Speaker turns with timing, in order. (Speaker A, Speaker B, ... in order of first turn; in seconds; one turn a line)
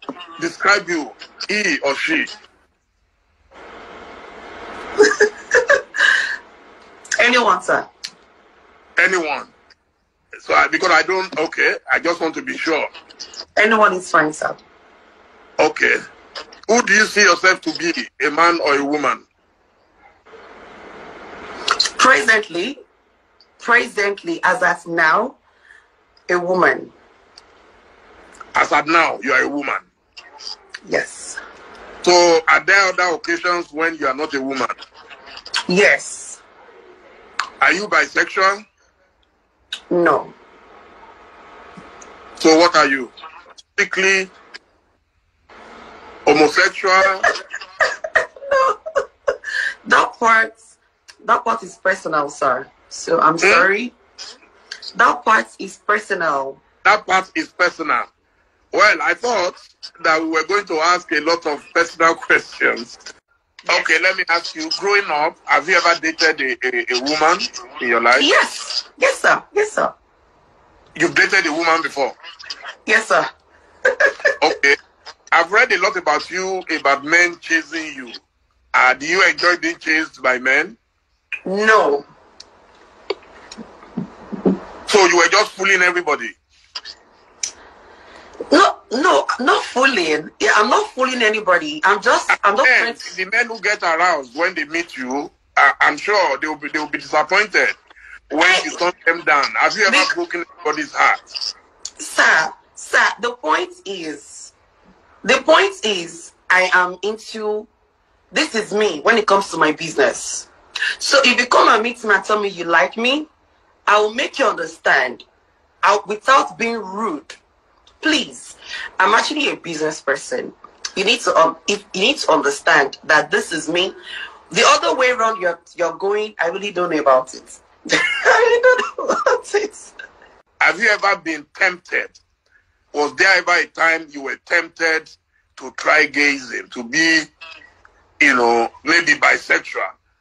Speaker A: 0.4-2.3
Speaker B: 5.0-5.8
Speaker B: 7.2-7.9
Speaker A: 9.0-9.5
Speaker A: 10.4-12.9
Speaker B: 13.6-14.6
Speaker A: 15.6-16.0
Speaker A: 16.7-19.2
Speaker B: 22.0-22.8
Speaker B: 23.6-25.4
Speaker B: 26.3-26.9
Speaker A: 28.6-29.9
Speaker B: 30.9-31.4
Speaker A: 32.0-34.7
Speaker B: 35.7-36.4
Speaker A: 37.6-38.6
Speaker B: 39.9-40.4
Speaker A: 42.4-43.1
Speaker A: 43.8-44.3
Speaker A: 46.3-47.2
Speaker B: 47.2-47.9
Speaker B: 48.5-48.8
Speaker B: 49.9-54.0
Speaker A: 53.4-53.7
Speaker B: 55.0-56.6
Speaker A: 56.8-58.1
Speaker A: 58.7-63.0
Speaker A: 63.7-68.3
Speaker B: 68.2-70.0
Speaker A: 71.0-72.2
Speaker B: 72.9-73.3
Speaker A: 74.4-74.8
Speaker A: 75.3-78.2
Speaker A: 78.7-80.8
Speaker B: 81.5-82.1
Speaker A: 84.9-86.4
Speaker B: 88.5-93.1
Speaker A: 92.3-97.8
Speaker A: 98.3-101.2
Speaker B: 98.4-98.8
Speaker B: 102.0-104.5
Speaker B: 105.2-107.7
Speaker B: 108.3-110.5
Speaker B: 111.0-113.3
Speaker B: 113.9-115.2
Speaker B: 115.8-117.4
Speaker B: 118.0-124.0
Speaker B: 124.5-129.9
Speaker A: 130.6-132.2
Speaker A: 132.9-137.3
Speaker A: 138.2-139.9